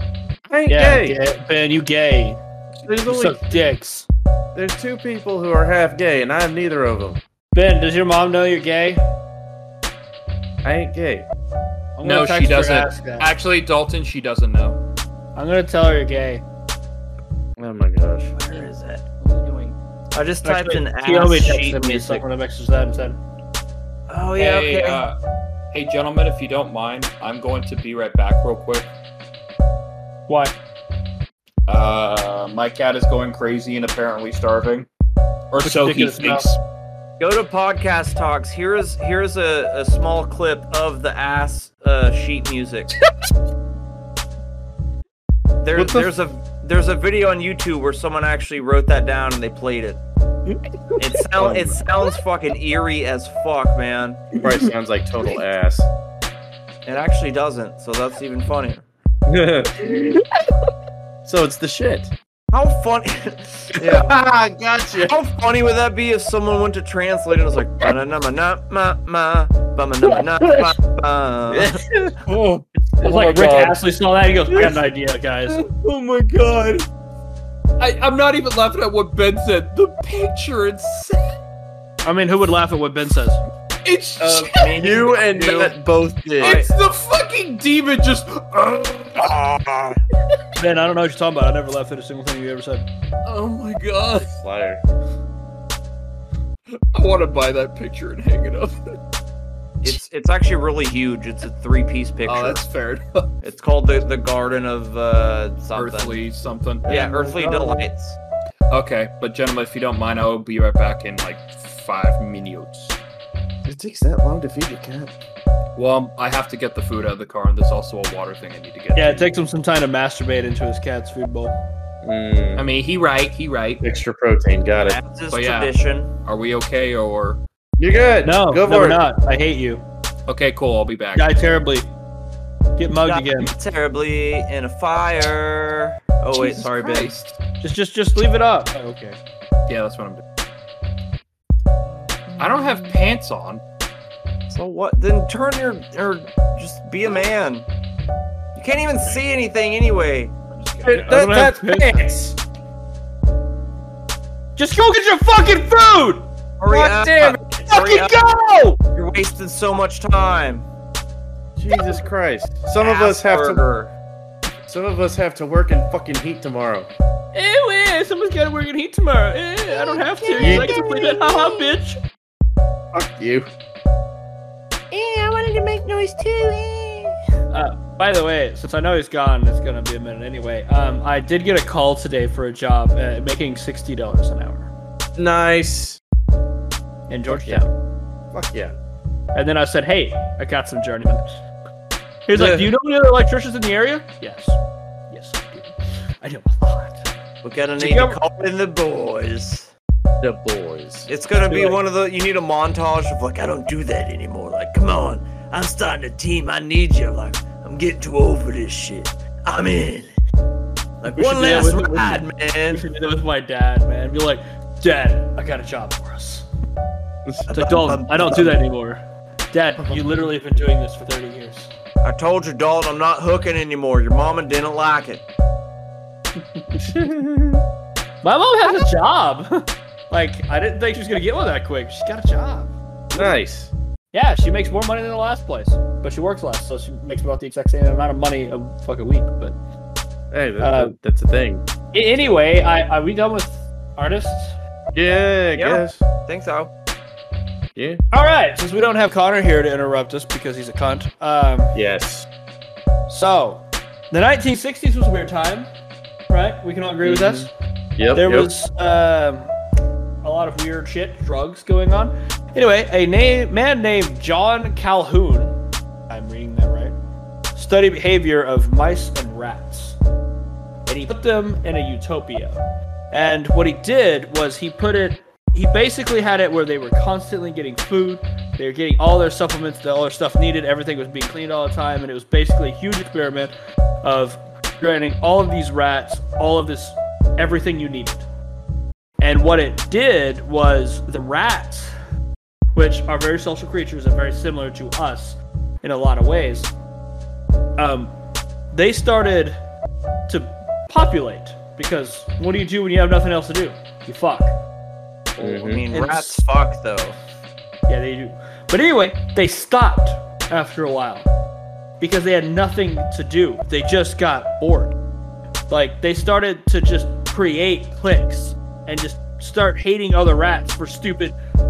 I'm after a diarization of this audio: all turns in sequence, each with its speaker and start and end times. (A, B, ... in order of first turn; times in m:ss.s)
0:00.5-0:01.2 A
0:00.7-0:02.4 B
0:02.8-0:03.7 A
0:03.1-0:04.1 B
0:04.6-0:07.2 A
0:07.5-0:09.0 B
0:10.6-0:11.3 A
0:12.0-0:13.3 B
0:12.0-0:14.8 C
0:15.4-0:16.4 B
0:17.6-0:18.3 A
0:18.4-0:19.1 D
0:19.2-0:19.7 C
0:20.1-0:22.2 D
0:20.4-0:23.2 B
0:24.1-0:25.1 D
0:24.4-0:25.2 C
0:25.7-0:28.9 C
0:30.3-0:30.5 B
0:31.7-0:34.9 C
0:35.5-0:36.6 C
0:35.6-0:36.5 B
0:37.2-0:43.0 D
0:45.6-0:50.0 D
0:45.8-0:46.1 A
0:51.0-0:54.3 D
0:51.4-0:51.8 A
0:54.4-0:55.9 A
0:56.8-0:58.8 D
0:59.3-0:59.8 A
1:01.2-1:02.1 A
1:02.5-1:04.1 D
1:03.8-1:05.2 A
1:05.0-1:11.8 D
1:10.1-1:10.7 A
1:11.5-1:12.2 A
1:12.2-1:13.8 C
1:13.0-1:15.6 B
1:15.5-1:16.9 C
1:17.8-1:21.2 C
1:22.0-1:23.4 B
1:23.8-1:24.8 C
1:24.2-1:25.7 D
1:24.8-1:26.6 A
1:26.4-1:26.7 D
1:26.4-1:29.4 C
1:29.2-1:29.8 D
1:30.6-1:32.9 B
1:33.3-1:34.3 C
1:34.3-1:34.8 A
1:36.7-1:38.8 C
1:39.8-1:42.6 D
1:42.3-1:43.3 C
1:43.4-1:46.2 D
1:45.8-1:47.1 C
1:46.8-1:47.9 A
1:46.9-1:48.2 D
1:48.7-1:53.0 C
1:53.6-1:55.1 A
1:55.8-1:59.4 C
1:59.0-2:01.6 B
2:02.0-2:02.6 A
2:02.6-2:03.8 C
2:03.8-2:05.0 A
2:04.9-2:06.2 D
2:05.3-2:05.7 C
2:06.2-2:07.4 C
2:07.8-2:09.0 A
2:08.2-2:09.8 B
2:10.3-2:11.3 C
2:11.2-2:11.9 B
2:12.8-2:13.5 B
2:13.0-2:17.2 D
2:16.3-2:17.4 C
2:17.6-2:19.2 B
2:19.7-2:20.2 C
2:21.8-2:23.0 D
2:22.4-2:23.6 C
2:24.5-2:27.7 D
2:28.6-2:30.4 D
2:30.5-2:31.2 C
2:30.8-2:32.4 A
2:30.9-2:32.1 B
2:34.6-2:36.3 B
2:36.6-2:38.2 D
2:36.7-2:37.4 A
2:37.7-2:38.8 B
2:38.9-2:40.7 D
2:41.6-2:43.6 A
2:42.8-2:43.9 D
2:44.7-2:46.9 A
2:47.3-2:52.0 B
2:50.0-2:51.0 E
2:50.4-2:50.8 A
2:52.9-2:53.5 A
2:55.0-2:55.8 E
2:56.5-2:57.1 E
2:57.5-3:04.7 B
3:05.2-3:06.0 A
3:07.1-3:07.7 B
3:07.3-3:07.6 A
3:08.3-3:08.7 A
3:09.3-3:11.4 B
3:12.3-3:14.6 B
3:12.3-3:12.7 A
3:15.1-3:17.1 B
3:17.4-3:19.7 D
3:17.8-3:18.2 B
3:20.2-3:21.1 A
3:21.1-3:30.1 D
3:21.5-3:21.8 B
3:31.0-3:32.8 D
3:31.1-3:36.5 B
3:37.3-3:37.5 A
3:37.5-3:41.7 B
3:37.5-3:38.6 D
3:39.8-3:40.1 A
3:42.0-3:45.2 D
3:46.6-3:46.8 B
3:46.8-3:47.6 A
3:48.2-3:53.3 B
3:53.1-3:53.7 A
3:54.1-3:59.6 B
4:00.3-4:01.7 A
4:00.6-4:01.0 B
4:01.9-4:04.6 B
4:05.0-4:06.0 A
4:05.6-4:06.7 D
4:07.8-4:08.0 A
4:08.1-4:11.8 B
4:11.7-4:12.3 A
4:13.1-4:15.7 B
4:16.3-4:17.5 B
4:17.0-4:18.5 A
4:18.2-4:19.5 B
4:20.2-4:25.5 B
4:26.1-4:27.0 B
4:27.6-4:30.0 B
4:30.9-4:32.6 B
4:33.1-4:43.5 B
4:44.0-4:48.2 B
4:49.2-4:51.9 B
4:52.8-4:56.7 B
4:57.8-4:58.1 B
4:58.7-4:59.6 B
5:00.3-5:04.6 B
5:05.4-5:07.2 D
5:05.4-5:05.8 A
5:05.9-5:06.4 B
5:07.9-5:11.3 B
5:12.0-5:15.0 B
5:15.7-5:21.4 B